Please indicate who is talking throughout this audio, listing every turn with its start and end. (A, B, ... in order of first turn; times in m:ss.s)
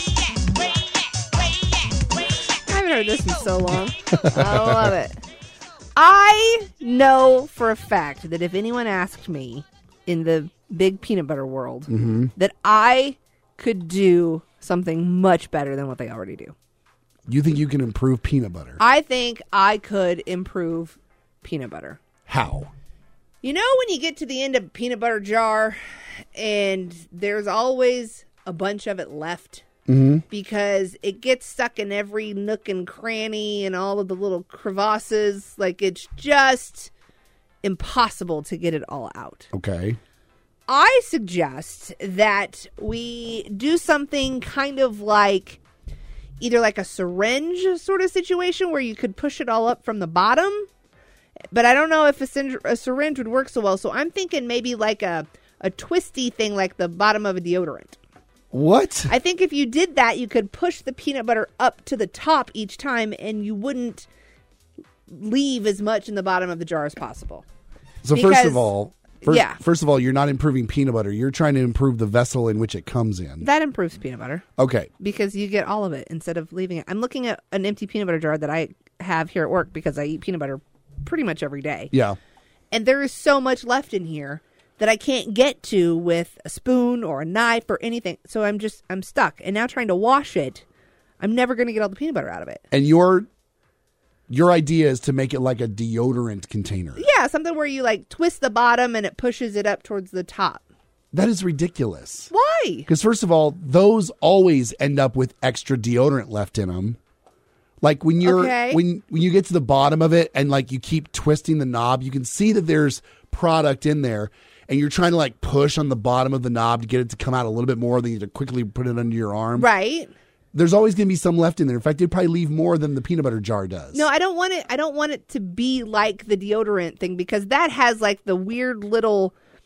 0:02.6-0:05.2 A
0:04.1-0:04.8 B
0:06.0-0:16.6 A
0:11.9-0:12.3 B
0:17.3-0:18.8 B
0:18.8-0:22.0 A
0:22.3-0:22.7 B
0:23.4-0:29.6 A
0:29.9-0:30.2 B
0:30.3-0:36.9 A
0:37.6-0:39.5 A
0:39.5-0:40.0 B
0:40.7-0:45.6 A
0:46.4-0:50.7 A
0:51.5-0:58.0 A
0:58.5-0:59.1 B
0:59.1-1:04.1 A
1:05.1-1:07.4 A
1:08.0-1:13.5 B
1:08.1-1:08.7 A
1:09.2-1:09.6 A
1:13.4-1:14.5 A
1:14.6-1:14.9 B
1:15.0-1:21.9 A
1:21.9-1:22.2 B
1:22.7-1:30.6 A
1:31.2-1:32.6 A
1:32.7-1:33.3 B
1:34.3-1:37.0 B
1:37.0-1:40.6 A
1:41.1-1:42.3 B
1:42.3-1:42.9 A
1:42.9-1:47.0 B
1:47.8-1:59.7 B
1:48.2-1:48.8 A
1:59.6-2:00.1 A
2:00.5-2:04.1 B
2:03.9-2:09.3 A